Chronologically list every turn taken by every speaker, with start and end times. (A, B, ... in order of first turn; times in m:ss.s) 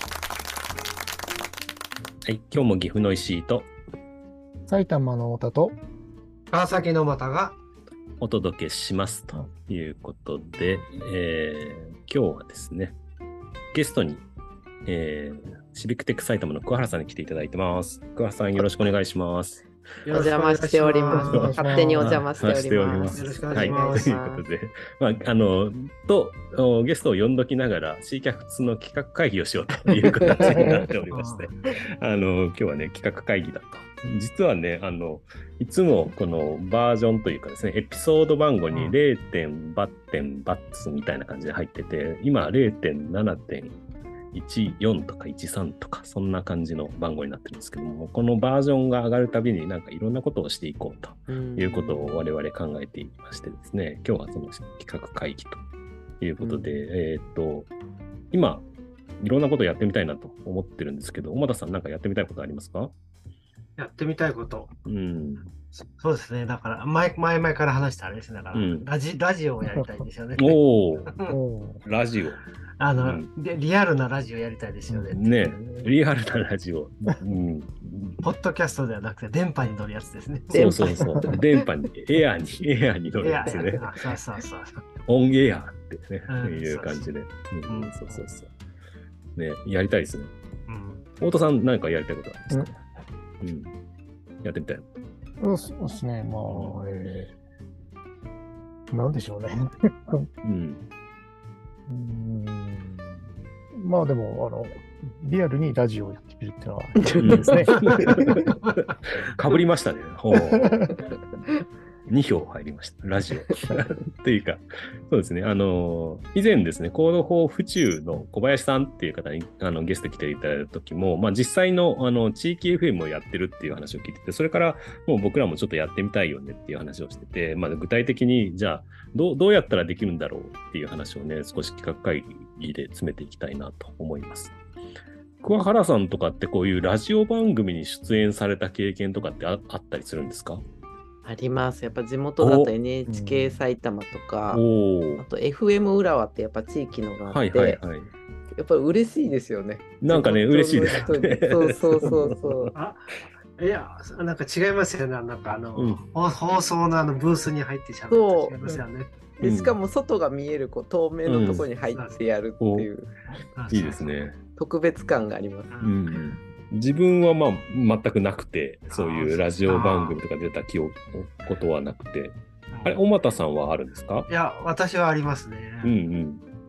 0:02.2-0:03.7 A
0:04.7-0:05.8 B
0:06.5-0:07.6 C
0:08.2-0:13.0 A
0:13.7-0:14.2 A
0:14.9-0:19.6 A
0:18.6-0:18.9 D
0:20.1-0:24.1 C
0:20.1-0:24.4 D
0:21.1-0:22.2 B
0:21.3-0:43.8 A
0:30.2-0:30.6 D
0:30.4-0:30.9 B
0:31.1-0:31.5 C
0:38.7-0:39.0 C
0:44.3-0:55.6 A
0:51.3-0:52.2 D
0:56.2-0:57.7 A
0:56.4-0:56.8 D
0:58.3-0:58.7 A
0:59.2-1:02.9 A
1:03.8-1:04.7 C
1:04.9-1:05.5 A
1:05.8-1:11.4 C
1:08.5-1:08.9 A
1:10.4-1:11.2 A
1:11.2-1:11.8 B
1:11.8-1:12.4 A
1:12.8-1:15.4 C
1:13.0-1:13.3 A
1:14.9-1:18.2 A
1:18.2-1:21.4 C
1:20.5-1:21.1 D
1:20.5-1:24.0 A
1:23.2-1:24.9 C
1:25.0-1:28.5 A
1:26.3-1:27.1 C
1:27.7-1:28.0 C
1:29.4-1:30.3 A
1:30.7-1:31.1 C
1:31.2-1:32.7 A
1:33.4-1:33.7 A
1:34.4-1:35.0 A
1:35.4-1:37.3 B
1:36.5-1:36.8 A
1:38.9-1:40.3 B
1:40.4-1:40.8 A
1:41.9-1:43.2 B
1:43.7-1:48.5 B
1:47.1-1:47.6 D
1:47.2-1:48.5 A
1:49.4-1:50.8 A
1:50.5-1:50.9 B
1:52.1-2:14.5 A
2:15.4-2:20.6 A
2:21.2-2:24.6 D
2:22.4-2:22.8 A
2:23.1-2:23.6 B
2:24.5-2:25.2 A
2:25.2-2:27.8 D
2:27.3-2:28.1 A
2:28.6-2:32.7 D
2:30.0-2:32.8 A
2:30.9-2:31.1 C
2:32.8-2:39.3 C
2:35.8-2:36.0 A
2:38.1-2:38.6 D
2:39.4-2:43.1 D
2:39.4-2:39.8 A
2:41.3-2:41.7 A
2:41.9-2:42.2 C
2:42.6-2:42.9 A
2:43.6-2:44.2 C
2:43.7-2:44.4 A
2:44.6-2:45.7 D
2:45.7-2:46.0 C
2:45.8-2:54.3 A
2:48.9-2:50.2 C
2:52.7-2:53.0 C
2:54.3-2:56.0 C
2:55.8-2:56.4 A